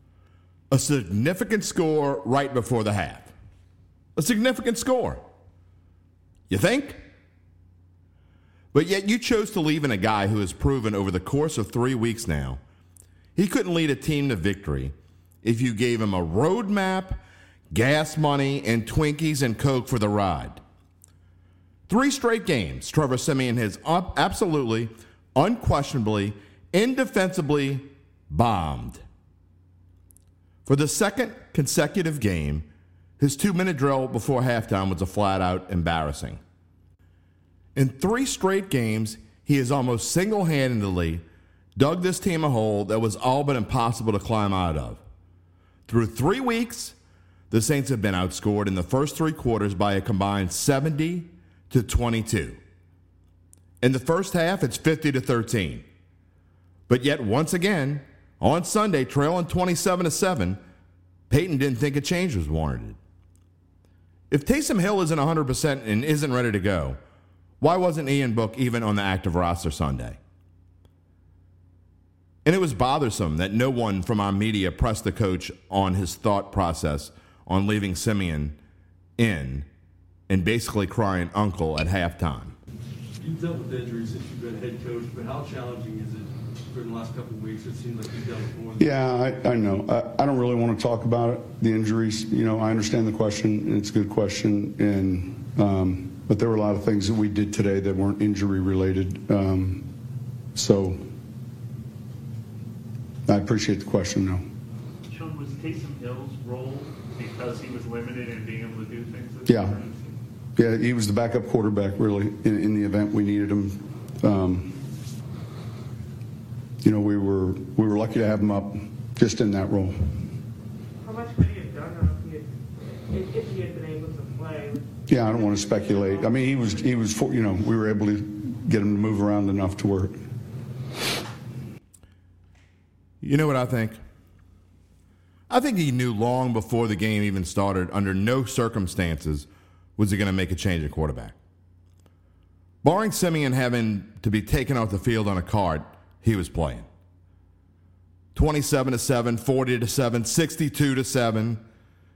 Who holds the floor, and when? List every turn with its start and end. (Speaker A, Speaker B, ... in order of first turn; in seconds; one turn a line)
Speaker A: 0.7-3.3
Speaker A: 4.2-5.2
Speaker A: 6.5-7.0
Speaker A: 8.7-12.6
Speaker A: 13.4-20.6
Speaker A: 21.9-29.0
Speaker A: 30.7-32.7
Speaker A: 33.2-36.4
Speaker A: 37.8-41.2
Speaker A: 41.8-45.0
Speaker A: 45.9-47.0
Speaker A: 47.5-52.6
Speaker A: 53.8-55.9
Speaker A: 56.9-60.6
Speaker A: 61.3-63.0
Speaker A: 64.3-67.0
Speaker A: 67.6-70.2
Speaker A: 72.5-78.6
Speaker A: 79.2-79.7
Speaker A: 80.3-82.6
Speaker B: 83.2-89.0
Speaker C: 88.8-99.9
Speaker C: 100.5-101.1
Speaker C: 103.3-104.4
Speaker D: 105.1-110.0
Speaker C: 109.5-109.8
Speaker C: 110.6-114.9
Speaker C: 116.8-120.2
Speaker E: 121.0-127.0
Speaker C: 125.1-130.2
Speaker A: 133.2-134.0
Speaker A: 135.5-141.4
Speaker A: 142.8-146.9
Speaker A: 148.3-151.6